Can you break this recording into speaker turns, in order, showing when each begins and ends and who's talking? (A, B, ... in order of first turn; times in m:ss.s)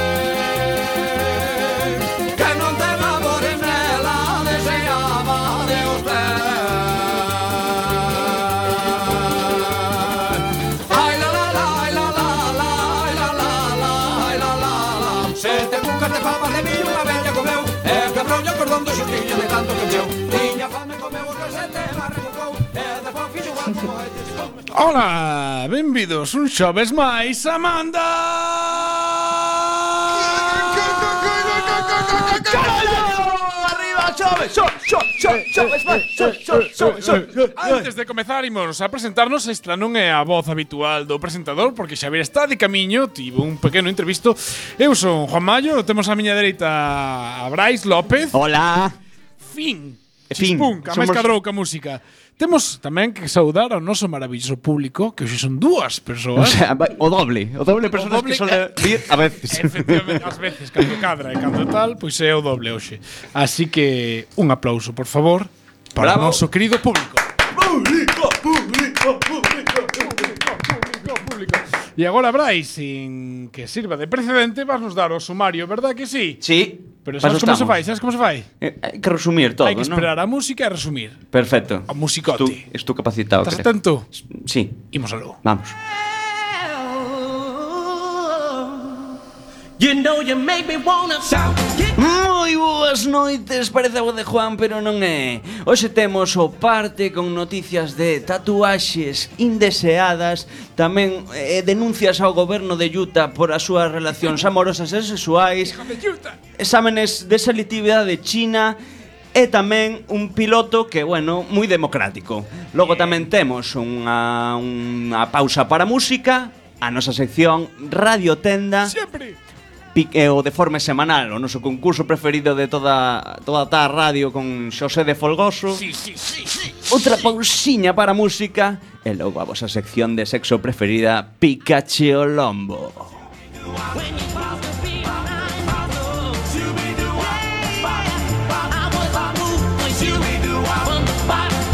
0:01.4-0:24.7 A
0:24.7-0:32.9 B
0:30.9-0:31.3 C
0:32.0-0:37.8 C
0:35.6-0:48.4 B
0:48.3-0:49.0 C
0:49.4-0:56.6 B
0:50.3-0:51.3 C
0:56.4-1:00.2 C
0:57.9-1:07.2 B
1:06.0-1:06.4 C
1:07.6-1:09.8 C
1:09.9-1:16.4 B
1:16.4-1:17.8 C
1:17.0-1:18.5 B
1:18.6-1:20.1 C
1:19.6-1:21.2 B
1:21.3-1:23.7 C
1:21.9-1:22.6 B
1:23.4-1:24.1 B
1:24.2-1:24.9 C
1:24.9-1:25.4 B
1:25.4-1:25.8 C
1:29.8-1:31.9 A
1:32.0-1:45.8 C
1:45.7-1:46.4 B
1:46.6-1:48.8 C
1:49.3-1:59.0 C
1:58.8-1:59.4 B
1:59.9-2:05.8 C
2:05.8-2:06.4 B
2:06.9-2:13.2 C
2:19.1-2:21.1 A